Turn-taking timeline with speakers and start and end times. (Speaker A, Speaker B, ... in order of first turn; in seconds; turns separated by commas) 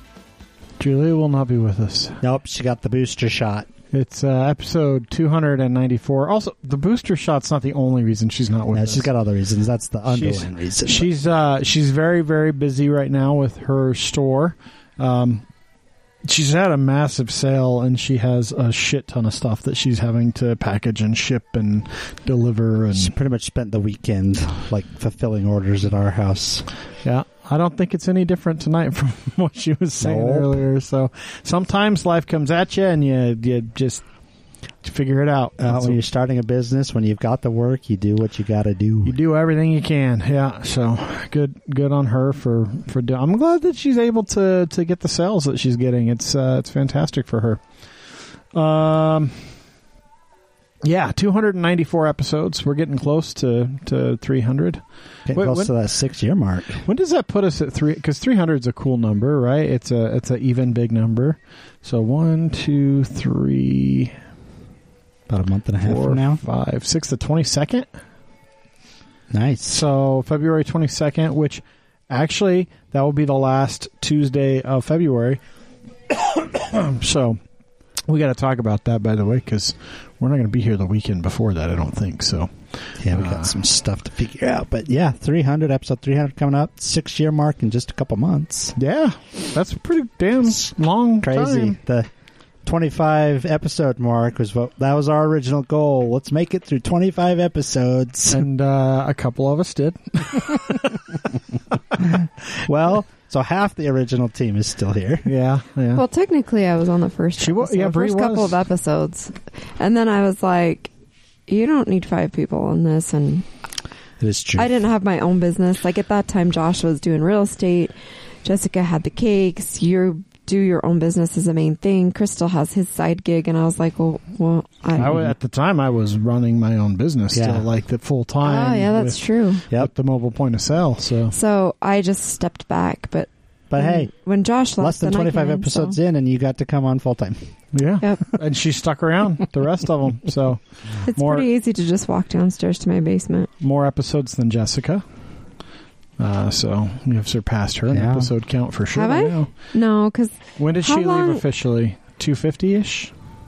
Speaker A: 0.8-2.2, Speaker B: 2.2-3.7, Speaker A: 3.9-9.1, Speaker B: 8.7-11.1, Speaker A: 10.1-15.4, Speaker A: 16.2-23.1, Speaker B: 22.9-26.7, Speaker A: 27.0-34.0, Speaker B: 30.0-30.6, Speaker A: 34.8-36.0, Speaker B: 35.6-39.1, Speaker A: 39.0-47.6, Speaker A: 48.5-49.4, Speaker A: 50.8-55.7, Speaker B: 55.3-56.9, Speaker A: 56.8-64.1, Speaker B: 65.3-66.4, Speaker A: 65.8-67.9, Speaker B: 69.3-69.8, Speaker A: 69.7-75.4, Speaker A: 76.2-77.4, Speaker A: 78.1-83.5, Speaker B: 83.0-88.7, Speaker A: 88.8-91.8, Speaker B: 91.2-92.1, Speaker B: 92.6-98.4, Speaker A: 98.3-101.0, Speaker B: 102.6-105.3, Speaker A: 105.2-106.0, Speaker C: 105.9-110.9, Speaker A: 107.4-108.6, Speaker C: 111.5-113.4, Speaker B: 114.2-114.7, Speaker C: 114.6-117.9, Speaker C: 118.4-125.2, Speaker A: 125.0-131.3, Speaker B: 127.3-127.7, Speaker C: 128.4-129.6, Speaker C: 131.3-136.0, Speaker B: 133.7-134.1, Speaker B: 134.8-137.4, Speaker A: 137.7-140.6, Speaker C: 141.1-143.5, Speaker A: 141.1-141.5, Speaker A: 143.6-145.0, Speaker A: 146.2-149.5, Speaker B: 147.9-148.3, Speaker C: 148.9-151.4, Speaker A: 150.6-153.1